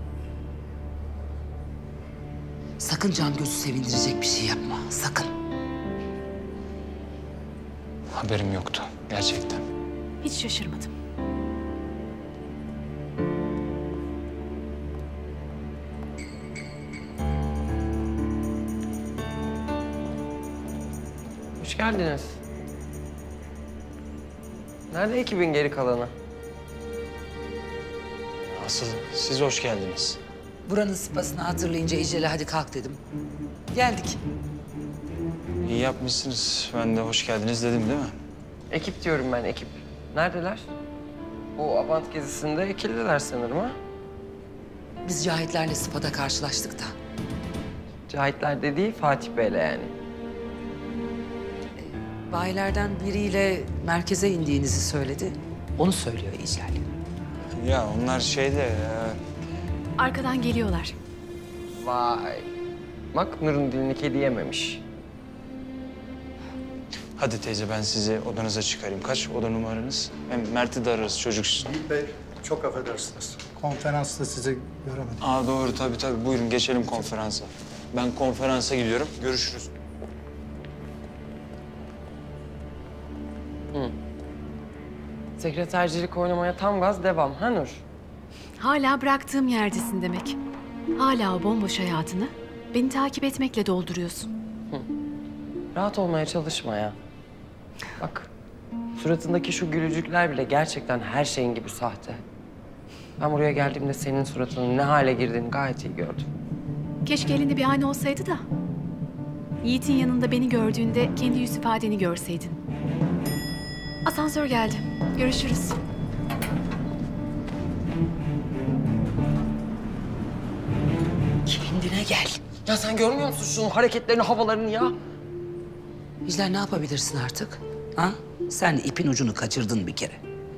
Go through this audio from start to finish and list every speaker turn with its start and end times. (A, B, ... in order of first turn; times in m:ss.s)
0:02.8-0:05.3 A
0:08.1-0:09.6 B
0:10.2-0:10.9 C
0:21.6-0:22.4 D
0:24.9-0:26.1 D
0:28.4-0:30.2 B
0:30.6-0:33.0 A
0:33.7-0:34.2 A
0:35.6-0:38.2 B
0:38.7-0:40.7 D
0:41.6-0:43.8 D
0:45.0-0:46.9 A
0:48.1-0:49.9 D
0:51.8-0:56.8 A
0:57.5-0:59.2 B
1:00.0-1:01.0 C
1:01.7-1:02.5 D
1:03.1-1:04.8 D
1:07.2-1:11.7 B
1:11.6-1:15.2 E
1:15.2-1:19.7 B
1:25.4-1:27.8 D
1:28.6-1:30.4 C
1:31.0-1:34.3 C
1:35.7-1:37.0 D
1:38.0-1:38.3 D
1:39.0-1:42.2 D
1:43.2-1:46.3 D
1:47.0-1:48.4 C
1:49.6-1:52.6 C
1:54.0-1:55.8 C
2:01.4-2:02.4 A
2:02.6-2:04.9 D
2:06.2-2:10.2 A